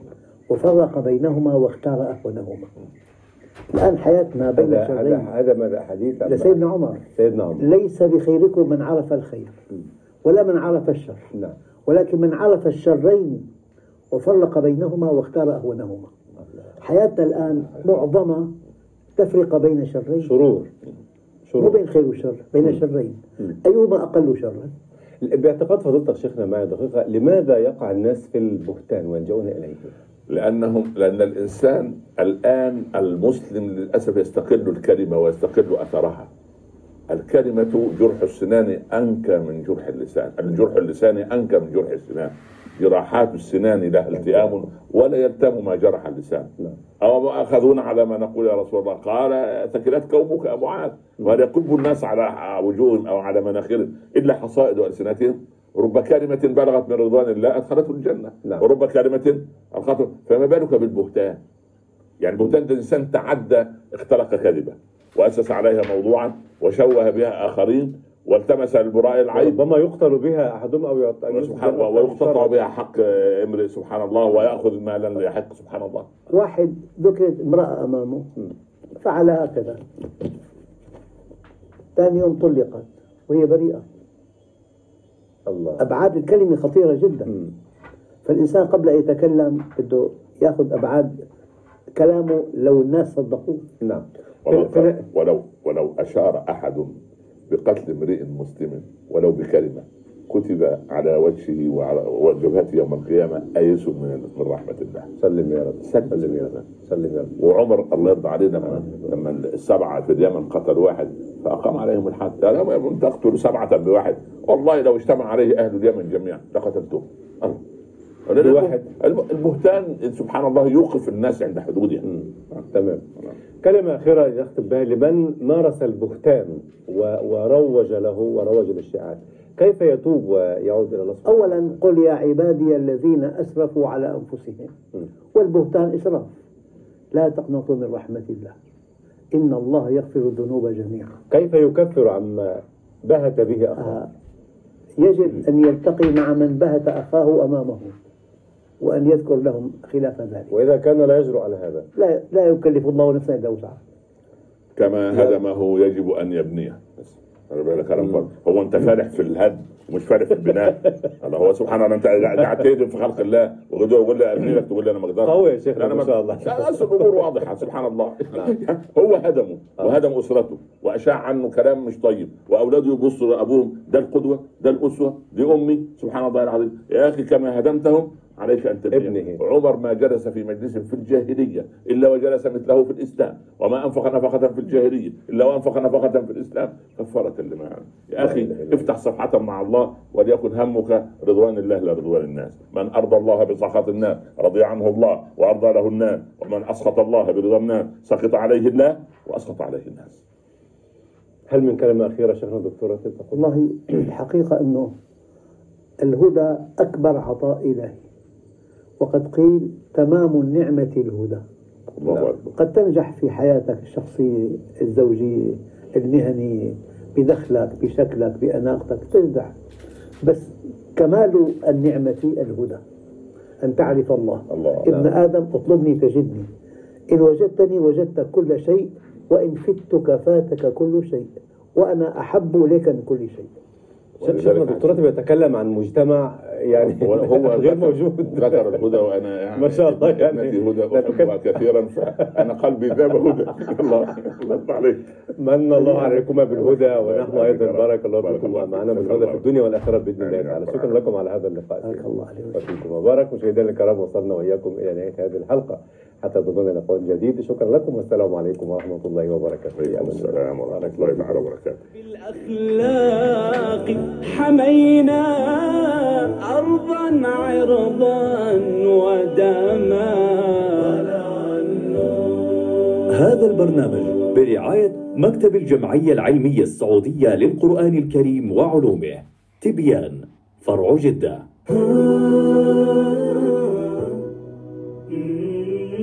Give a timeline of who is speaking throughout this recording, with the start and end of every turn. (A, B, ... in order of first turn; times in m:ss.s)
0:00.5-0:02.7 A
0:03.7-0:05.3 A
0:04.6-0:06.6 B
0:06.3-0:07.0 A
0:07.2-0:07.7 B
0:07.6-0:09.6 A
0:10.2-0:11.3 A
0:11.9-0:13.4 A
0:14.1-0:16.1 A
0:16.8-0:18.5 A
0:19.2-0:20.3 A
0:20.2-0:20.7 B
0:21.5-0:21.8 B
0:21.6-0:24.7 A
0:25.2-0:29.9 B
0:30.3-0:36.3 C
0:37.1-0:46.5 C
0:47.0-1:01.4 C
1:02.2-1:09.6 C
1:09.3-1:12.7 B
1:11.3-1:16.1 C
1:16.3-1:18.3 A
1:19.0-1:19.8 A
1:22.0-1:23.8 A
1:25.5-1:25.9 B
1:25.8-1:27.3 A
1:28.2-1:31.1 A
1:32.0-1:33.6 A
1:33.8-1:35.0 B
1:34.5-1:37.0 C
1:37.5-1:45.1 C
1:45.2-1:47.3 B
1:45.8-1:46.6 C
1:47.4-1:57.6 C
1:58.3-2:02.6 C
1:58.4-1:58.9 B
2:02.0-2:03.1 B
2:03.6-2:11.8 B
2:11.3-2:14.7 A
2:15.3-2:16.3 A
2:17.1-2:18.6 A
2:19.4-2:21.2 A
2:21.3-2:24.0 B
2:23.8-2:24.1 A
2:25.0-2:28.0 A
2:28.8-2:30.5 A
2:30.5-2:31.9 B
2:32.0-2:33.8 A
2:34.8-3:20.2 C
2:45.2-2:47.3 B
2:58.9-2:59.4 B
3:08.2-3:08.9 B
3:21.5-3:23.5 B
3:23.3-3:24.9 A
3:26.0-3:28.0 A
3:29.0-3:31.4 A
3:32.0-3:32.6 C
3:32.6-3:39.5 A
3:40.2-3:42.8 A
3:43.6-3:46.5 A
3:44.5-3:44.8 C
3:47.1-3:53.5 A
3:54.2-3:55.0 C
3:54.2-3:58.8 B
3:56.8-4:05.1 C
3:59.6-4:01.4 B
4:05.4-4:21.5 B
4:05.8-4:06.2 A
4:06.6-4:09.5 C
4:10.2-4:11.0 C
4:11.8-4:12.8 A
4:19.8-4:21.8 C
4:22.0-4:31.5 D
4:33.1-4:41.4 E